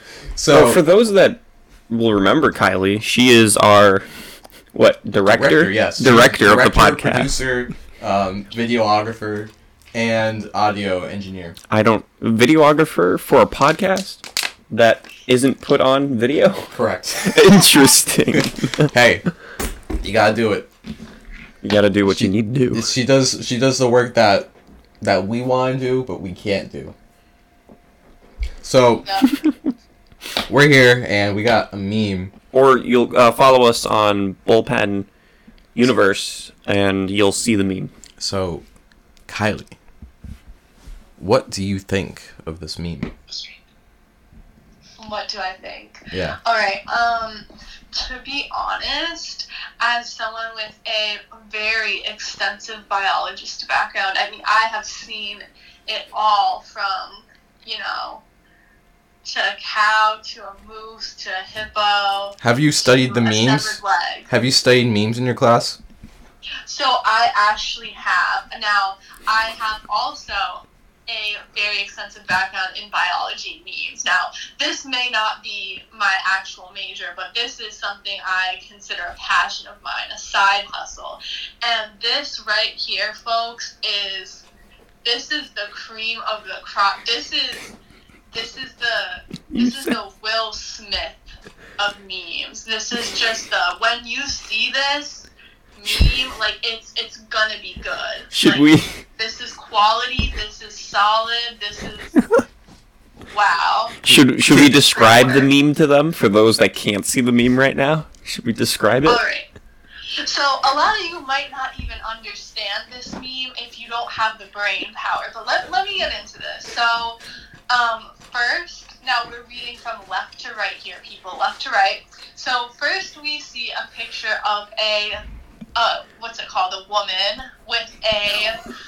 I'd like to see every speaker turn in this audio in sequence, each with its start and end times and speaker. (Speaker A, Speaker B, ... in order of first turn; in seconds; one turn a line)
Speaker A: 0.3-0.8
Speaker B: 0.5-4.1
Speaker B: 4.7-7.3
Speaker A: 5.3-11.6
Speaker B: 11.7-18.9
Speaker A: 16.7-17.5
Speaker A: 18.3-19.2
Speaker A: 20.0-20.7
Speaker B: 21.6-22.9
Speaker A: 22.1-24.5
Speaker A: 25.0-26.9
Speaker A: 28.6-29.2
Speaker A: 30.5-32.3
Speaker B: 32.5-35.1
Speaker B: 35.7-37.9
Speaker A: 38.2-38.6
Speaker A: 39.3-39.8
Speaker A: 41.2-43.1
Speaker C: 43.3-43.5
Speaker C: 45.0-58.2
Speaker A: 46.1-46.4
Speaker C: 59.2-64.3
Speaker A: 62.4-65.8
Speaker C: 66.7-84.5
Speaker C: 85.0-87.7
Speaker C: 88.3-91.2
Speaker B: 89.5-89.9
Speaker C: 91.8-102.2
Speaker B: 98.3-98.9
Speaker C: 103.3-104.0
Speaker B: 104.0-109.2
Speaker C: 104.6-105.5
Speaker C: 109.0-109.5
Speaker C: 110.2-117.2
Speaker C: 117.7-125.2
Speaker C: 125.7-128.6